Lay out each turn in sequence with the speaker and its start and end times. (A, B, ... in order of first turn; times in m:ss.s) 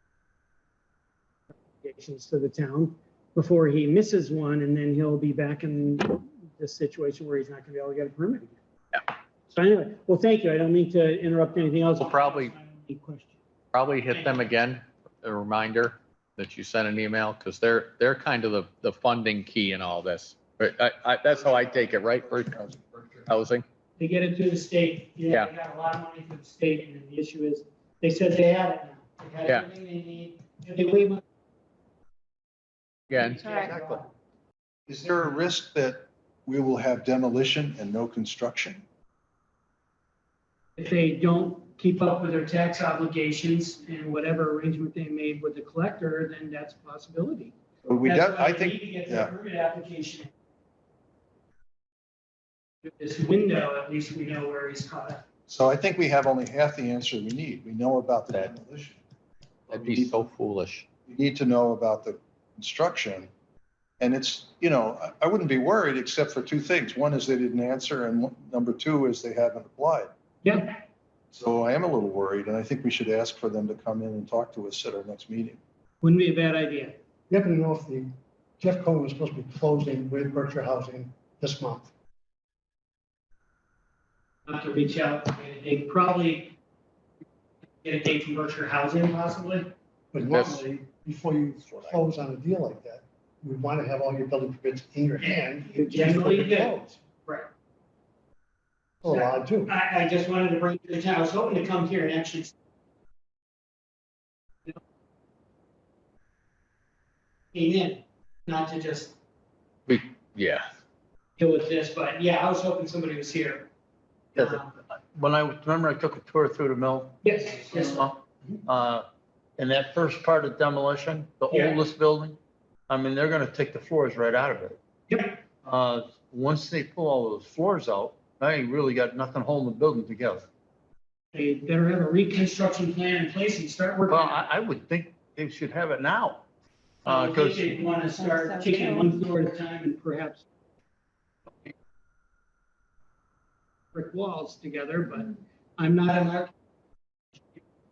0:01.8-0:08.6 A
0:09.5-0:13.4 A
0:12.0-0:12.5 B
0:13.7-0:23.6 B
0:14.1-0:14.4 A
0:21.3-0:23.2 C
0:24.0-0:31.2 A
0:33.1-0:33.6 B
0:33.1-0:34.1 A
0:34.9-0:38.8 C
0:40.8-0:50.3 A
0:47.8-0:49.3 C
0:52.8-0:55.2 A
0:55.5-0:59.0 C
0:59.7-1:00.3 C
0:59.7-1:00.8 B
1:01.1-1:03.3 C
1:04.0-1:10.1 C
1:10.4-1:10.8 A
1:11.3-1:15.6 C
1:16.0-1:17.0 A
1:17.3-1:21.9 D
1:24.5-1:26.5 A
1:27.8-1:29.7 A
1:30.1-1:37.0 D
1:30.2-1:30.6 B
1:35.2-1:37.5 A
1:39.0-1:39.7 D
1:39.1-1:42.5 A
1:47.5-1:49.1 A
1:49.9-1:50.7 B
1:51.4-1:53.7 A
1:54.3-1:59.0 E
1:54.4-1:54.7 A
1:57.2-1:58.0 A
1:59.6-2:04.8 E
2:01.5-2:01.8 A
2:05.1-2:05.3 A
2:05.6-2:10.4 E
2:11.3-2:14.4 A
2:14.1-2:16.4 E
2:17.0-2:17.8 E
2:17.1-2:20.4 A
2:23.9-2:26.5 A